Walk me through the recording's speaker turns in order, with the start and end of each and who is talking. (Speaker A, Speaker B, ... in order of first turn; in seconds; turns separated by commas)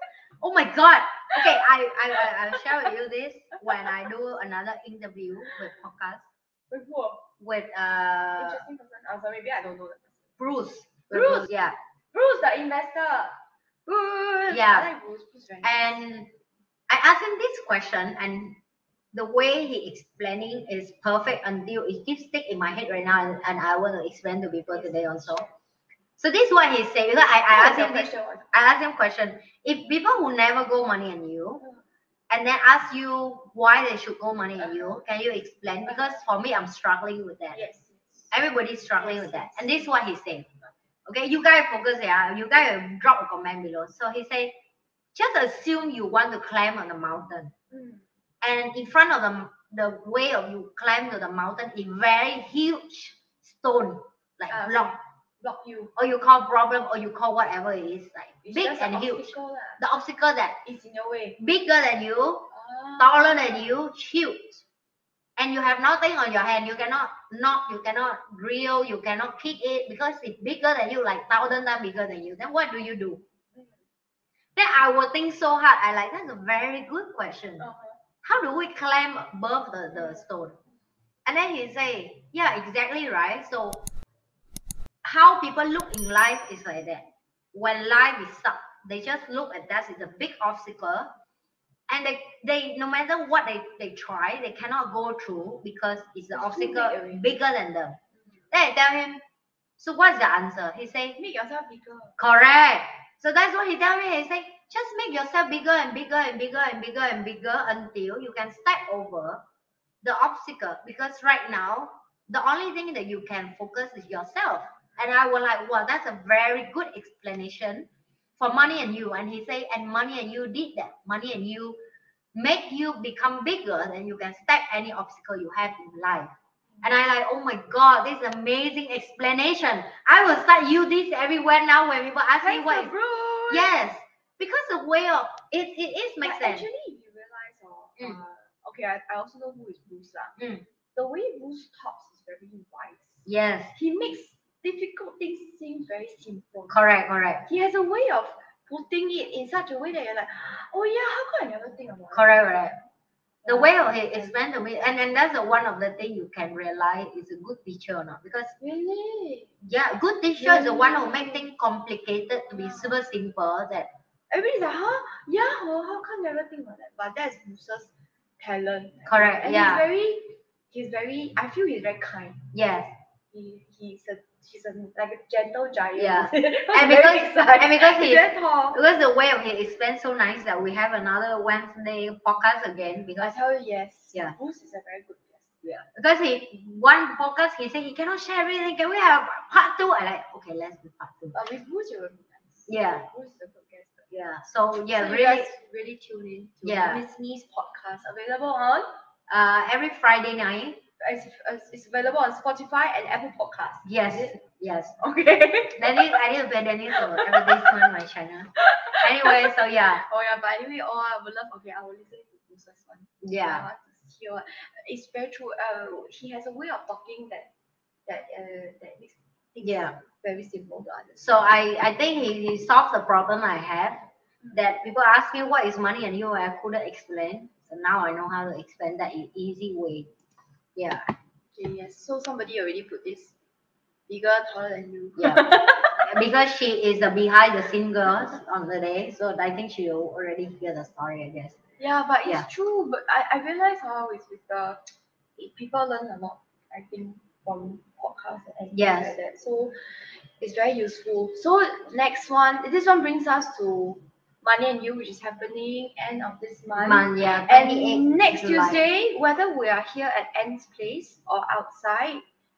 Speaker A: 0.4-6.3, Speaker B: 6.7-7.2, Speaker A: 7.4-8.6, Speaker B: 8.4-10.2, Speaker A: 10.4-11.8, Speaker B: 11.1-11.5, Speaker B: 12.1-16.0, Speaker A: 14.5-14.9, Speaker A: 15.6-16.3, Speaker A: 16.9-18.6, Speaker A: 19.1-25.4, Speaker B: 24.7-25.5, Speaker A: 26.2-31.6, Speaker B: 27.5-28.5, Speaker A: 32.3-37.6, Speaker B: 35.9-36.2, Speaker B: 37.5-38.3, Speaker A: 38.3-40.5, Speaker B: 39.0-39.9, Speaker A: 41.0-44.5, Speaker A: 45.1-47.5, Speaker B: 47.7-48.0, Speaker A: 48.4-54.9, Speaker B: 54.5-55.9, Speaker A: 56.0-60.6, Speaker B: 58.4-59.8, Speaker B: 60.6-61.4, Speaker A: 61.4-64.6, Speaker B: 62.5-63.6, Speaker A: 65.4-73.2, Speaker B: 73.5-73.8, Speaker A: 74.5-77.7, Speaker B: 77.6-78.0, Speaker A: 78.2-80.6, Speaker B: 79.9-80.2, Speaker A: 81.2-83.9, Speaker A: 85.0-91.1, Speaker A: 91.9-98.0, Speaker B: 96.3-97.3, Speaker A: 98.5-99.2, Speaker A: 99.8-101.2, Speaker B: 101.1-102.2, Speaker A: 102.2-109.4, Speaker A: 110.0-117.9, Speaker A: 118.4-121.8, Speaker A: 122.3-132.9, Speaker B: 132.4-133.8, Speaker A: 133.5-136.7, Speaker B: 136.2-140.4, Speaker A: 140.4-140.6, Speaker B: 140.9-146.8, Speaker A: 143.2-143.7, Speaker A: 146.7-147.4, Speaker B: 147.4-152.5, Speaker A: 152.1-152.8, Speaker B: 153.4-154.3, Speaker A: 153.4-158.6, Speaker B: 158.6-159.5, Speaker A: 159.6-163.9, Speaker B: 160.4-161.4, Speaker B: 162.5-162.9, Speaker B: 164.3-172.4, Speaker A: 169.1-169.8, Speaker A: 172.5-172.9, Speaker B: 173.3-178.8, Speaker A: 175.9-183.3, Speaker B: 183.2-185.5, Speaker A: 185.6-191.3, Speaker B: 191.3-194.1, Speaker A: 192.7-193.1, Speaker A: 194.1-195.5, Speaker B: 194.9-198.9, Speaker A: 196.6-197.0, Speaker A: 199.3-200.8, Speaker B: 201.0-204.4, Speaker A: 203.8-204.9, Speaker B: 205.0-206.1, Speaker A: 205.8-210.1, Speaker B: 206.9-207.8, Speaker B: 208.6-217.5, Speaker A: 213.2-213.7, Speaker B: 218.1-221.4, Speaker A: 219.6-220.0, Speaker A: 221.2-230.1, Speaker A: 230.8-231.1, Speaker B: 231.5-233.3, Speaker B: 234.1-236.0, Speaker A: 235.2-241.6, Speaker B: 241.8-244.8, Speaker B: 245.4-262.2, Speaker A: 248.7-249.1, Speaker A: 256.8-258.8